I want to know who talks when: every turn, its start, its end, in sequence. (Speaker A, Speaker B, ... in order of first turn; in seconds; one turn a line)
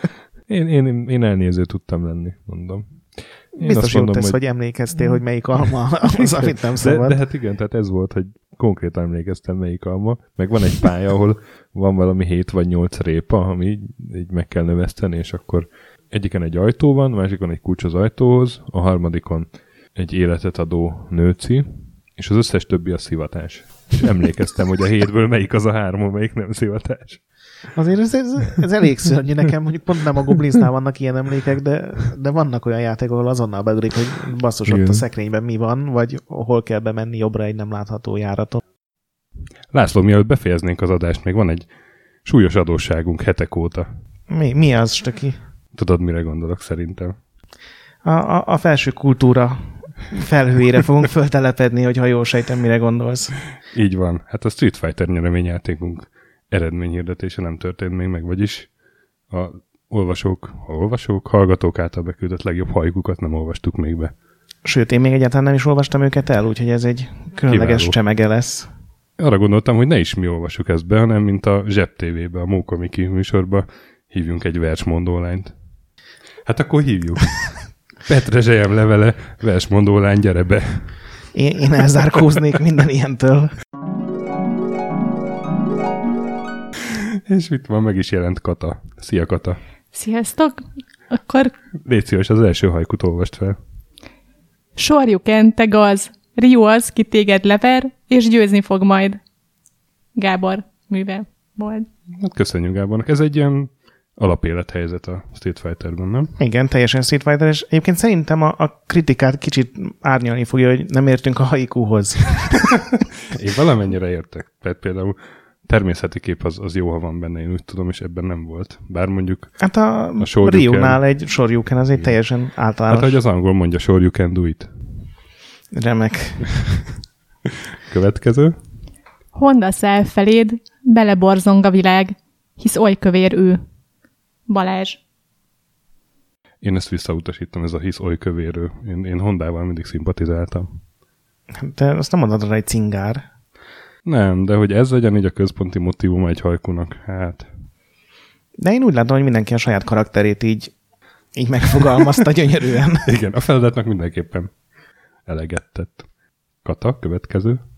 Speaker A: 0.5-4.4
Speaker B: 3.6-7.2
Speaker A: 6.2-27.2
Speaker B: 27.7-38.6
Speaker A: 34.7-35.0
Speaker A: 39.7-41.7
Speaker A: 42.2-43.9
Speaker B: 44.3-45.4
Speaker A: 45.7-47.1
Speaker B: 48.0-53.4
Speaker A: 53.7-58.7
Speaker A: 59.3-64.1
Speaker B: 64.7-68.7
Speaker A: 67.5-68.0
Speaker A: 69.2-75.5
Speaker A: 76.5-80.9
Speaker B: 81.3-83.5
Speaker A: 86.9-89.6
Speaker C: 89.9-91.5
Speaker A: 91.8-93.6
Speaker C: 94.8-99.2
Speaker C: 100.2-101.9
Speaker A: 102.2-106.3
Speaker B: 106.4-112.8
Speaker A: 113.3-119.5
Speaker B: 119.6-123.2
Speaker A: 120.2-121.0
Speaker A: 122.9-124.7
Speaker B: 125.7-126.9
Speaker A: 127.9-128.6
Speaker C: 129.3-133.6
Speaker C: 134.5-135.0
Speaker A: 136.6-140.7
Speaker B: 141.6-143.2
Speaker A: 144.0-147.5
Speaker B: 148.6-150.7
Speaker B: 151.3-153.1
Speaker A: 153.0-154.5
Speaker A: 155.3-156.1
Speaker A: 156.6-157.6